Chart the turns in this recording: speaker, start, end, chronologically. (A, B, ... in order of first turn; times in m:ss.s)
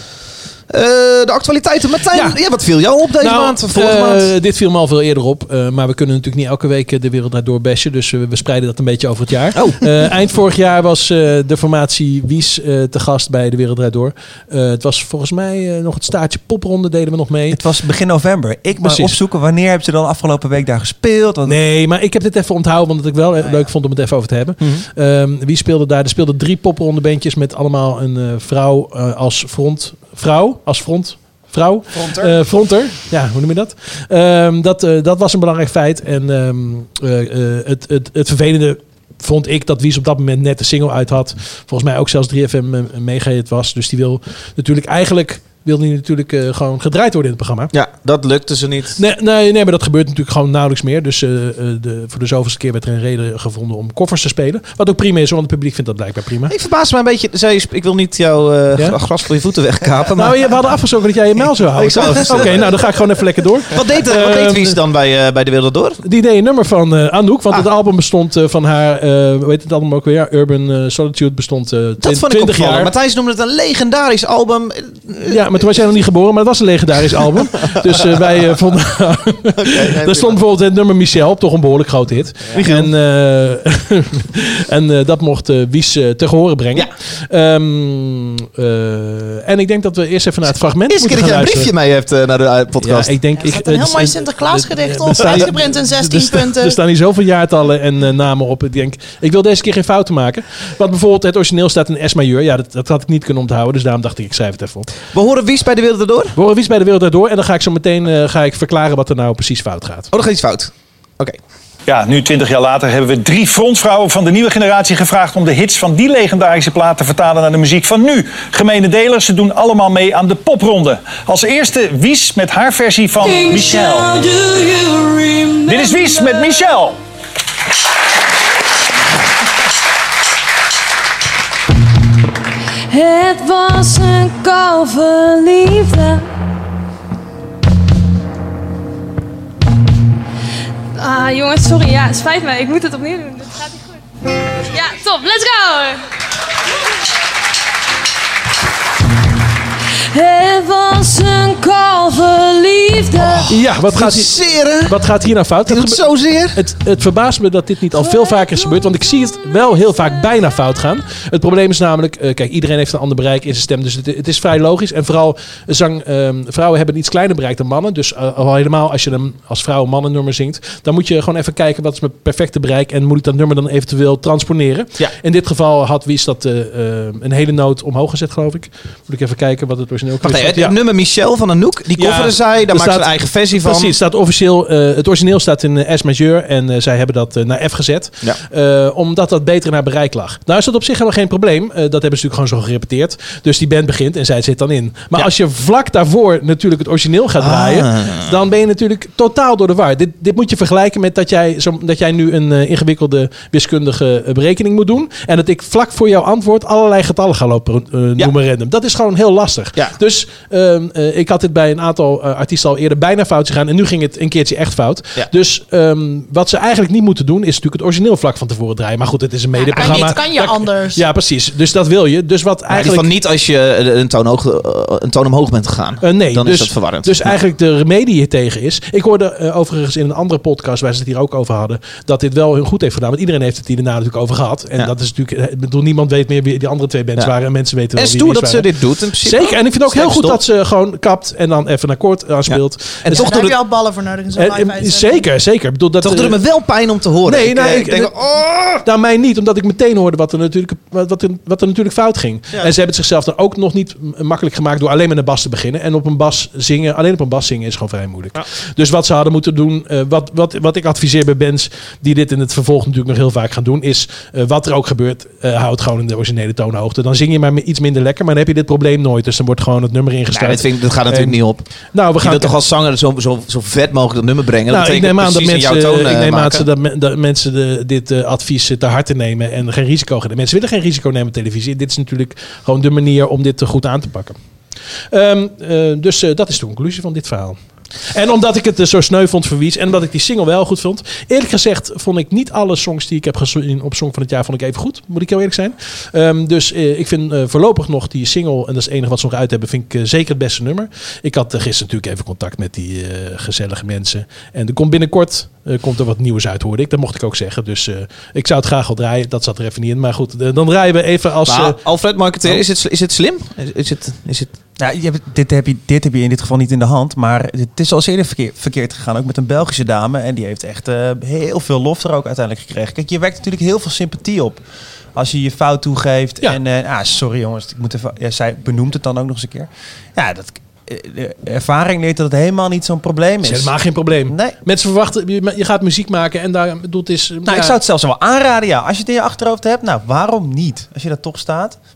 0:00.7-0:04.3 A
0:02.1-0:02.4 B
0:03.2-0:17.6 B
0:17.5-0:21.6 C
0:18.8-0:19.2 B
0:21.4-0:47.7 B
0:31.9-0:32.4 C
0:47.7-0:49.0 A
0:49.0-0:56.5 B
0:56.5-1:00.6 A
1:00.2-1:04.8 B
1:01.6-1:02.9 A
1:03.7-1:06.0 A
1:06.0-1:12.9 B
1:12.0-1:15.7 A
1:15.3-1:31.7 B
1:17.2-1:18.2 A
1:19.6-1:20.4 A
1:22.5-1:22.9 A
1:30.9-1:33.1 A
1:32.8-1:44.9 B
1:33.4-1:36.8 D
1:45.1-1:46.4 A
1:46.4-1:50.1 B
1:50.1-1:51.4 A
1:51.9-2:04.3 E
2:03.2-2:06.8 F
2:05.7-2:07.0 E
2:12.9-2:16.3 F
2:21.0-2:23.8 F
2:24.6-2:26.0 F
2:30.1-2:33.5 F
2:33.2-2:35.0 A
2:33.5-3:00.8 B
2:35.7-2:36.6 A
3:00.2-3:03.9 A
3:02.0-3:43.1 B
3:17.4-3:18.3 A
3:39.5-3:41.0 D
3:39.8-3:40.0 A
3:42.7-3:47.4 A
3:46.0-4:03.4 B
3:58.0-4:00.4 A
4:02.5-4:03.6 A
4:03.1-4:05.3 D
4:04.4-4:06.4 B
4:06.0-4:08.8 A
4:07.2-4:08.1 B
4:08.8-4:31.4 B
4:30.3-4:31.7 A
4:31.9-4:32.6 B
4:32.2-4:36.7 A
4:34.7-4:44.4 B
4:45.1-4:47.6 B
4:48.1-5:11.8 B
5:11.5-5:14.5 A
5:14.8-5:24.6 C
5:25.2-5:33.8 C
5:33.4-5:37.8 B
5:34.3-5:34.6 C
5:37.5-5:41.8 C